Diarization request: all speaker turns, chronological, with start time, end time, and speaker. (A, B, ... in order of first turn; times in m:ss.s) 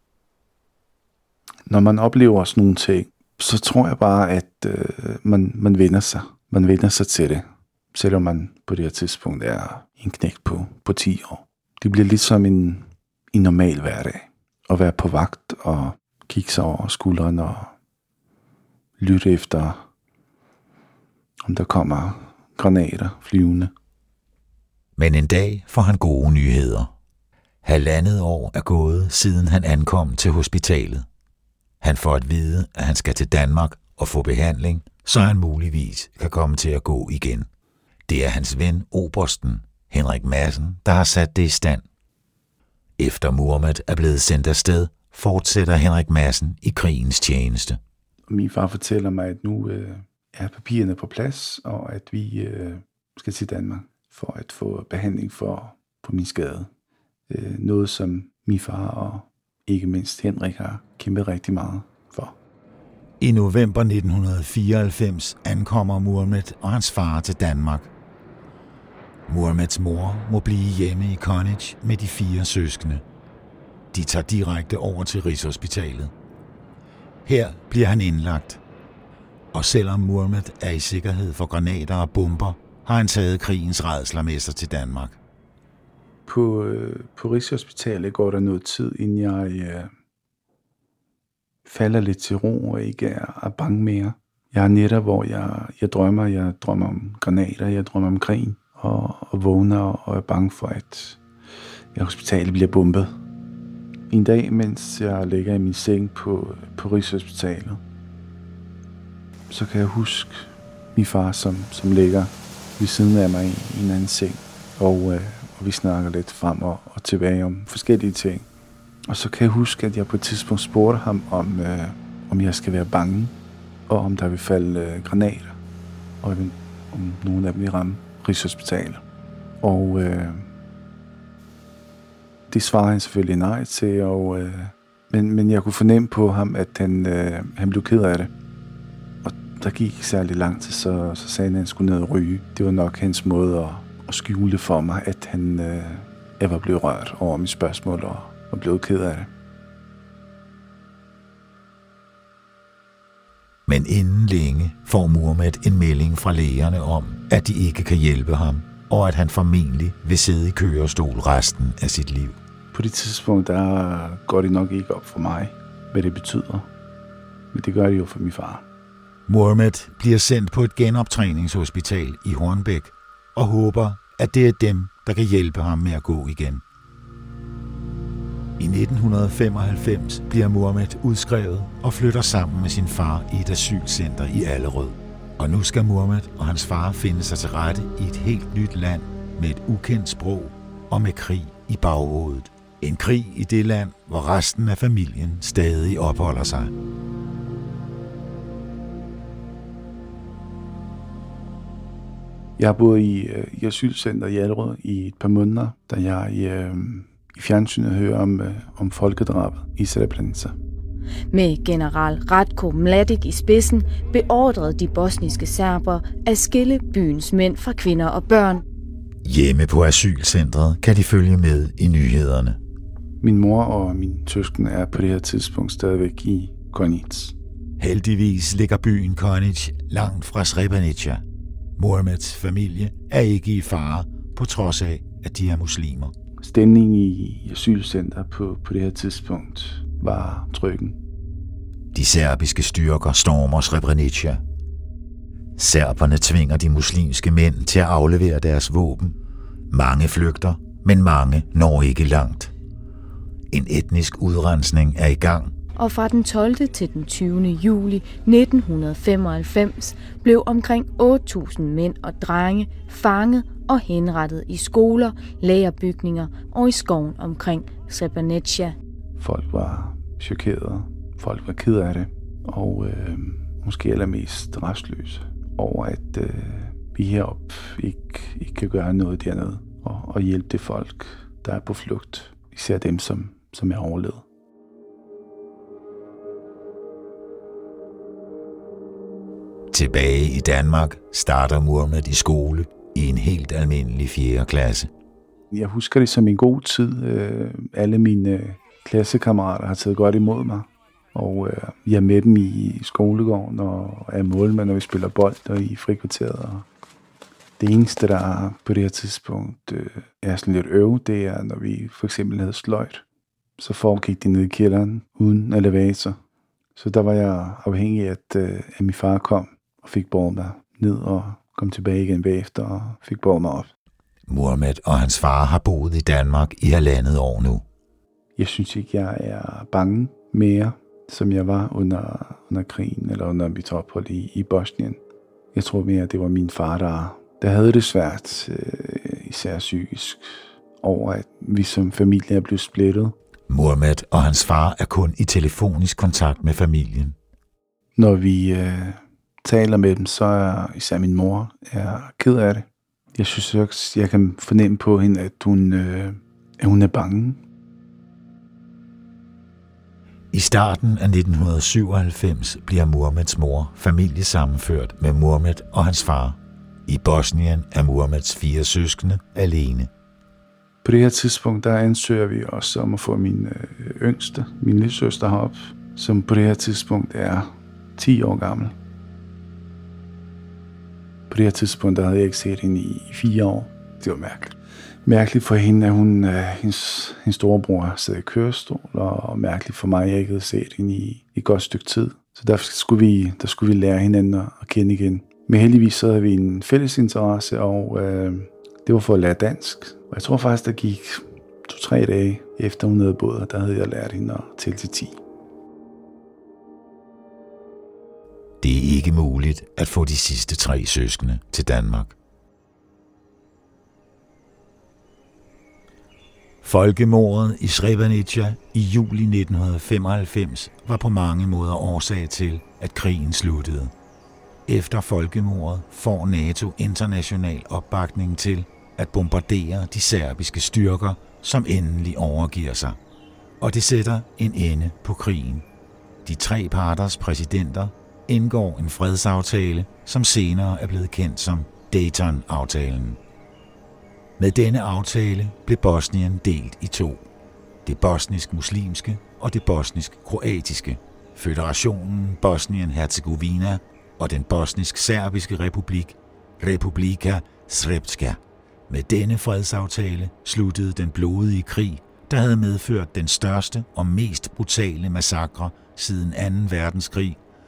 0:01.7-0:17.7 A
0:19.0-0:19.8 A
0:21.4-0:23.7 A
0:25.0-0:26.9 B
0:27.6-0:31.0 B
0:31.8-0:37.5 B
0:38.1-0:41.8 B
0:43.0-0:47.8 B
0:48.3-0:56.7 A
0:57.3-1:02.4 A
1:03.2-1:07.9 B
1:09.3-1:13.0 B
1:13.9-1:16.1 B
1:17.2-1:18.6 B
1:19.5-1:25.2 B
1:26.3-1:29.9 A
1:31.6-1:41.2 A
1:41.9-1:43.1 A
1:44.1-1:47.8 A
1:49.5-1:58.4 A
1:59.1-2:03.3 A
2:03.9-2:05.6 A
2:06.2-2:09.0 A
2:09.6-2:10.5 A
2:12.5-2:18.3 A
2:19.2-2:29.3 A
2:33.7-2:42.4 B
2:42.7-2:46.7 A
2:47.5-2:48.6 A
2:49.3-2:56.6 B
2:58.6-3:16.7 B
3:22.6-3:30.5 A
3:31.3-3:38.6 C
3:39.2-3:42.6 B
3:43.2-3:47.3 A
3:47.8-3:51.2 B
3:51.8-3:56.1 B
3:56.4-4:01.0 A
4:01.9-4:04.4 B
4:05.6-4:09.2 B
4:09.7-4:12.5 B
4:13.5-4:15.5 B
4:15.8-4:28.7 C
4:29.2-4:44.2 A
4:49.7-4:54.9 B
4:55.5-5:06.7 A
5:07.6-5:13.0 A
5:13.6-5:16.2 A
5:16.8-5:23.7 A
5:24.3-5:27.6 B
5:28.4-5:35.0 A
5:35.5-5:43.1 A
5:43.5-5:47.1 B
5:48.0-5:57.4 A
6:00.3-6:09.9 B
6:10.8-6:18.7 A
6:21.3-6:45.2 A
6:48.6-6:52.1 B
6:56.6-7:03.9 B
7:04.7-7:13.0 B
7:13.6-7:15.6 B
7:16.2-7:23.2 B
7:24.4-7:27.2 B
7:27.8-7:47.4 B